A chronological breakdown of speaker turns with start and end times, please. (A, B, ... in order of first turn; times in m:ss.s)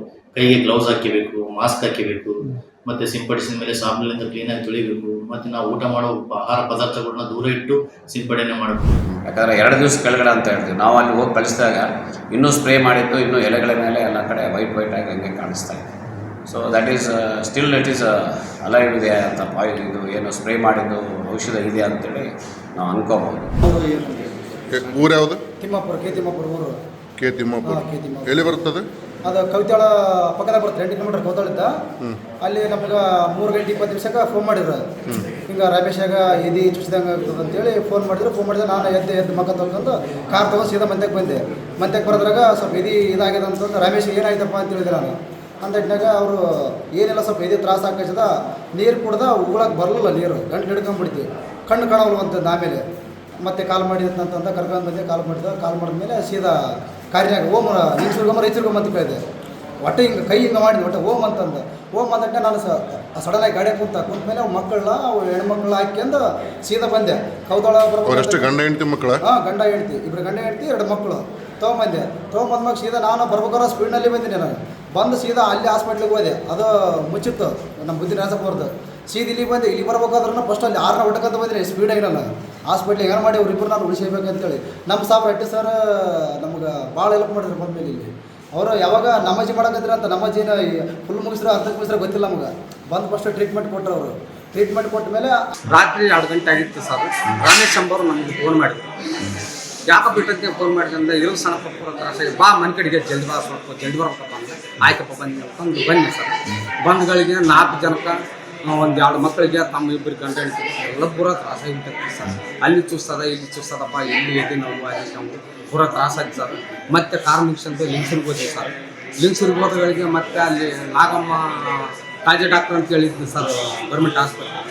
0:00.4-0:09.0 A
0:09.2-0:15.9 B
0:16.5-0:23.5 B
0:23.6-0:24.9 C
0:24.7-0:25.4 D
0:25.6-0:26.8 C
0:27.2-0:28.9 D
0:27.6-0:28.6 C
0:29.2-0:31.7 C
0:32.4-0:34.8 C
0:35.4-0:46.4 C
0:46.9-0:52.8 C
0:53.4-0:56.5 C
0:57.1-0:59.2 C
0:59.8-1:08.6 C
1:08.0-1:09.2 D
1:09.2-1:25.7 C
1:26.4-1:35.4 C
1:35.6-1:38.9 E
1:39.9-2:04.6 E